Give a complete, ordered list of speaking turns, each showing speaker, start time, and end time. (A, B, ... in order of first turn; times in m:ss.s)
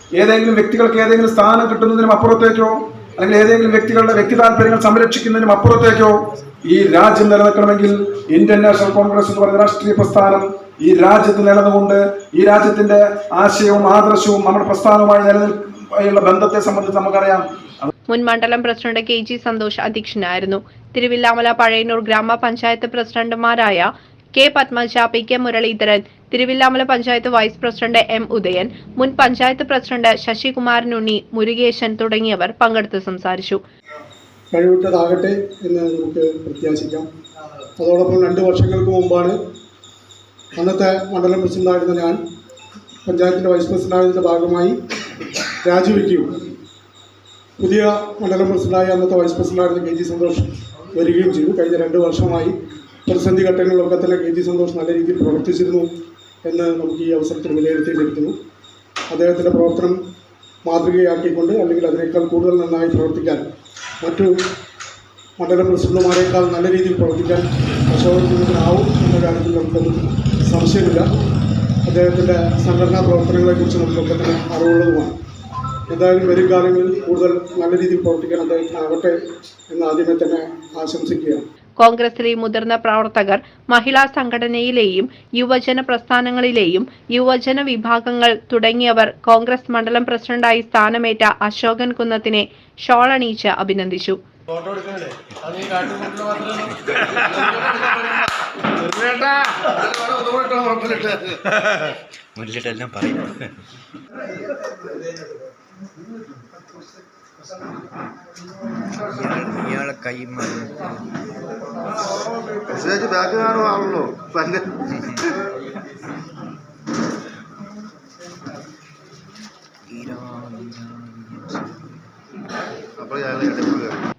0:00.2-0:17.9 A
0:18.1-0:33.6 B
0:34.5-0:37.1 C
0:37.8-0:39.4 C
0:40.6-0:42.2 C
0:43.0-0:44.8 C
0:45.6-0:46.4 C
0:47.6-0:52.5 C
0:53.1-0:55.9 C
0:56.4-0:58.4 C
0:59.1-1:00.0 C
1:00.6-1:03.5 C
1:04.0-1:04.3 C
1:05.4-1:11.1 C
1:11.9-1:15.1 C
1:15.9-1:19.2 C
1:19.7-1:21.4 C
1:21.8-1:34.2 B
1:37.5-1:37.8 D
1:38.8-1:41.3 D
1:42.4-1:43.5 E
1:49.1-1:51.0 E
1:52.7-1:54.8 D
1:59.9-2:01.9 E
2:03.0-2:04.0 D